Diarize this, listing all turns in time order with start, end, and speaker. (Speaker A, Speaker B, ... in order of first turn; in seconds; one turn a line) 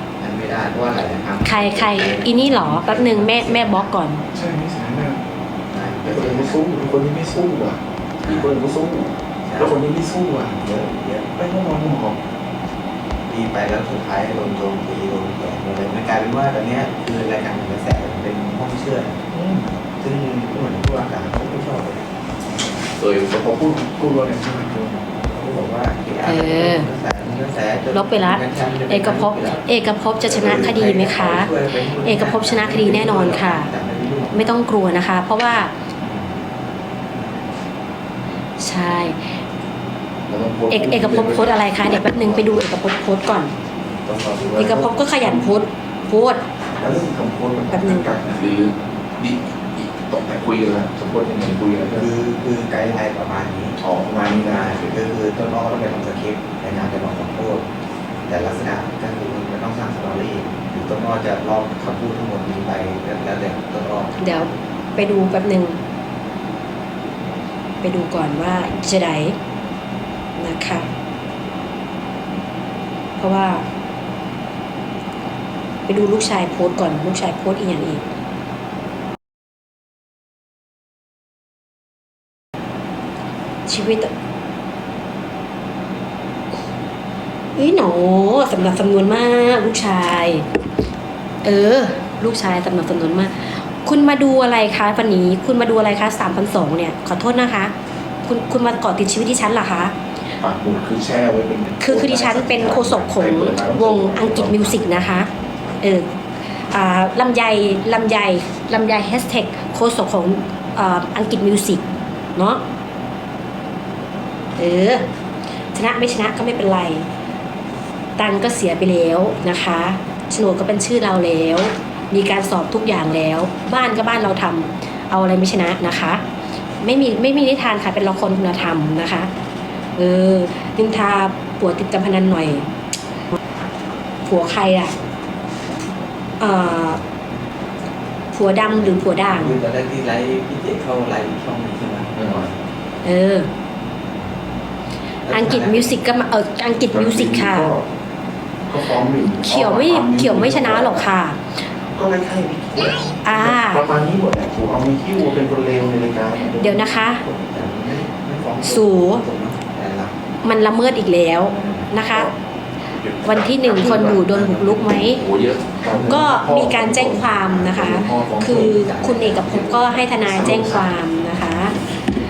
Speaker A: 0.2-3.9
Speaker B: 1.4-4.2
Speaker C: 4.3-5.2
Speaker A: 5.7-6.6
Speaker C: 6.0-12.2
Speaker A: 8.2-8.5
Speaker A: 9.4-9.8
Speaker A: 10.9-11.3
Speaker A: 13.3-19.2
Speaker C: 19.3-19.7
Speaker A: 20.0-22.1
Speaker C: 22.8-25.1
Speaker A: 25.2-29.6
Speaker B: 26.2-26.9
Speaker B: 27.9-33.7
Speaker A: 30.2-34.6
Speaker B: 34.3-35.7
Speaker A: 36.0-36.4
Speaker A: 37.1-37.5
Speaker B: 38.6-39.4
Speaker C: 40.3-42.6
Speaker B: 40.7-43.5
Speaker A: 43.8-45.0
Speaker B: 44.5-46.4
Speaker C: 46.8-52.1
Speaker B: 47.7-48.1
Speaker A: 52.0-53.8
Speaker C: 53.8-55.0
Speaker A: 54.4-57.6
Speaker A: 58.3-64.2
Speaker B: 64.2-65.8
Speaker B: 67.8-69.4
Speaker B: 70.4-70.9
Speaker B: 73.2-73.6
Speaker B: 75.9-78.0
Speaker B: 83.7-84.1
Speaker B: 87.5-90.5
Speaker B: 91.4-97.7
Speaker B: 98.2-99.9
Speaker C: 100.4-105.3
Speaker B: 101.8-105.3
Speaker B: 105.8-106.1
Speaker B: 106.7-112.6
Speaker B: 114.6-115.0
Speaker B: 115.7-117.1
Speaker B: 118.2-126.2
Speaker B: 126.8-129.3
Speaker B: 130.0-132.7
Speaker B: 134.2-134.9
Speaker B: 136.4-137.0
Speaker B: 138.3-139.6
Speaker A: 138.6-142.5
Speaker C: 142.2-142.5
Speaker B: 143.0-143.5
Speaker A: 145.2-146.0
Speaker B: 145.3-147.7
Speaker C: 146.9-147.9
Speaker C: 148.7-151.1
Speaker B: 149.4-151.5
Speaker C: 151.9-156.9
Speaker B: 153.2-153.8
Speaker B: 156.6-157.2
Speaker A: 156.8-160.1
Speaker B: 158.6-159.2
Speaker B: 160.4-162.3
Speaker A: 161.5-161.9
Speaker C: 162.1-162.3
Speaker C: 162.9-164.2
Speaker B: 163.2-165.2
Speaker A: 163.6-166.2
Speaker C: 165.2-168.8
Speaker B: 166.0-171.7
Speaker A: 168.4-170.8
Speaker C: 170.2-170.9
Speaker C: 171.5-172.0